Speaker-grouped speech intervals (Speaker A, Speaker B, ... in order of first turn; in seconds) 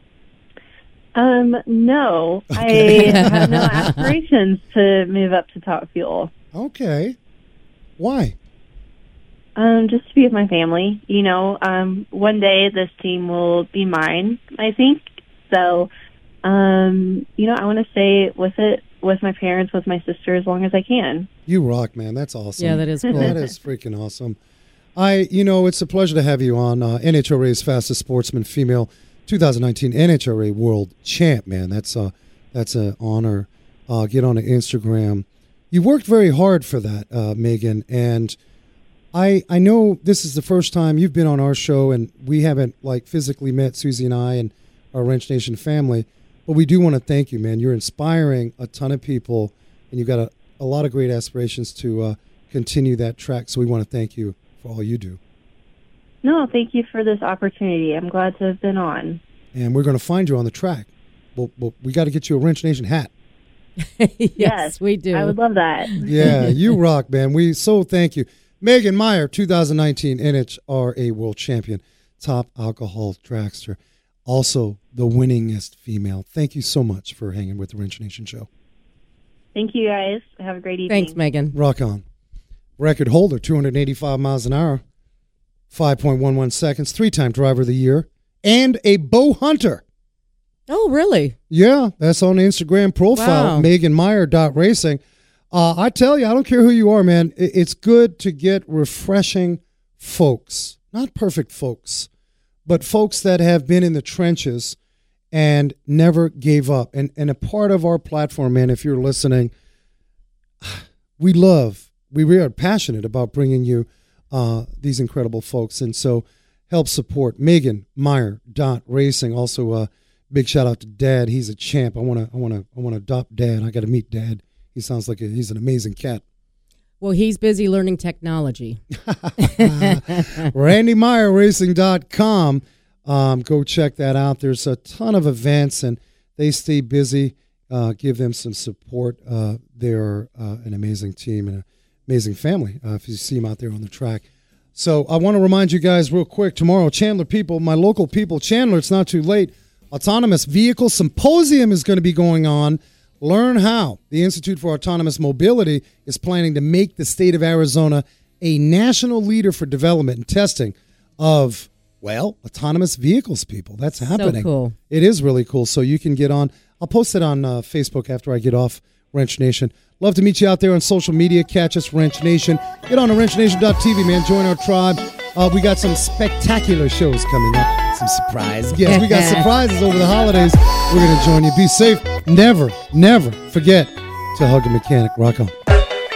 Speaker A: 1.1-6.3, 9.6-15.9, 16.4-21.3, 56.2-59.2, 64.4-66.5, 79.5-81.2
Speaker B: 2.5-4.1, 6.5-7.2, 8.0-8.3, 21.5-24.4, 24.9-38.4, 39.1-55.2, 59.5-63.1, 66.0-78.5, 81.5-82.0, 82.8-84.8, 85.7-89.8, 91.5-95.0, 95.5-102.1, 102.7-104.8, 105.3-109.5, 110.6-126.2, 129.1-185.6
Speaker C: 3.0-4.0, 22.6-23.4, 64.0-65.3, 65.9-66.5, 80.9-81.5, 90.7-91.3, 93.1-93.7, 127.0-128.8, 129.4-130.3, 164.0-164.7, 178.8-179.5